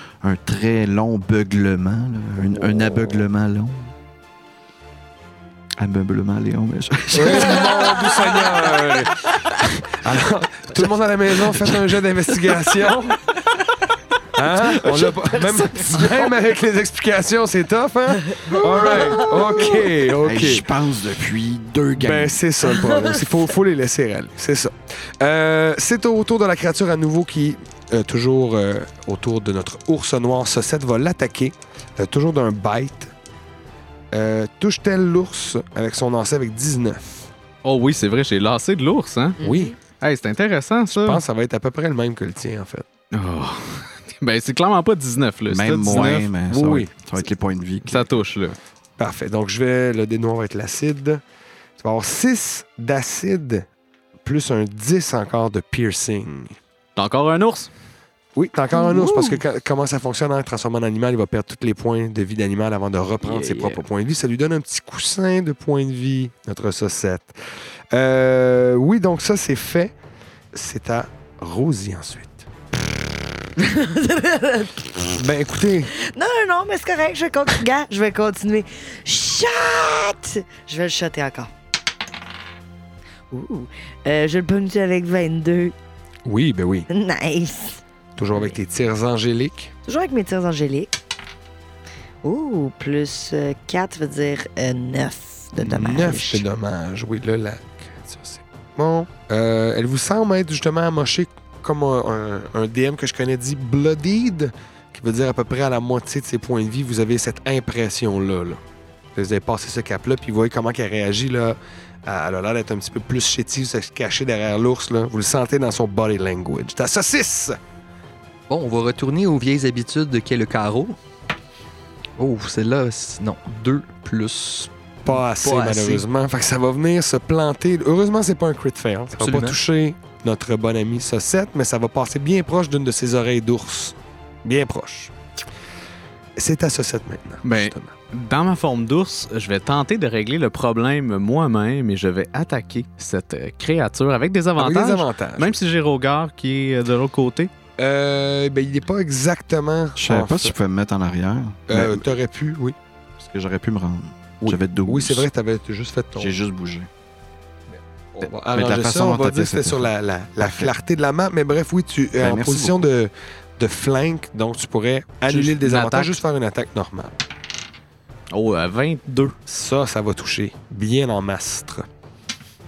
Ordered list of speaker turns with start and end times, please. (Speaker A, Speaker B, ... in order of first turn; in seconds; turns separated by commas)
Speaker A: 0.2-3.9, Speaker A: 5.8-8.2, Speaker B: 7.1-13.3, Speaker B: 14.3-20.6, Speaker A: 20.2-22.4, Speaker B: 22.0-33.1, Speaker B: 34.1-37.3, Speaker C: 37.6-41.2, Speaker D: 39.4-39.7, Speaker B: 39.4-39.8, Speaker B: 40.9-42.9, Speaker C: 43.1-46.3, Speaker A: 45.5-48.1, Speaker B: 45.8-46.9, Speaker C: 47.8-48.6, Speaker B: 49.0-51.2, Speaker B: 51.8-53.7, Speaker B: 54.2-56.5, Speaker C: 57.0-57.7, Speaker B: 58.3-67.4, Speaker D: 58.8-59.4, Speaker A: 63.2-63.8, Speaker B: 67.9-69.9, Speaker B: 70.5-72.5, Speaker D: 73.6-75.2, Speaker B: 75.2-75.9, Speaker D: 75.9-81.5, Speaker D: 83.3-85.7, Speaker B: 86.2-86.9, Speaker D: 86.9-87.8, Speaker B: 88.2-89.7, Speaker D: 89.8-91.0, Speaker D: 92.2-96.4, Speaker B: 95.6-108.6, Speaker B: 109.1-117.6, Speaker E: 118.5-121.0, Speaker E: 122.2-126.0, Speaker B: 125.0-135.1, Speaker E: 129.2-129.6, Speaker B: 136.4-137.9, Speaker C: 137.4-147.5, Speaker B: 144.6-145.6, Speaker B: 147.8-150.6, Speaker A: 149.9-152.1, Speaker B: 151.7-152.8, Speaker A: 153.2-155.3, Speaker B: 154.4-156.3, Speaker A: 156.1-156.9, Speaker B: 157.7-167.2, Speaker A: 158.2-160.7, Speaker A: 162.2-162.9, Speaker C: 165.3-166.2, Speaker C: 168.3-169.4, Speaker B: 169.4-171.8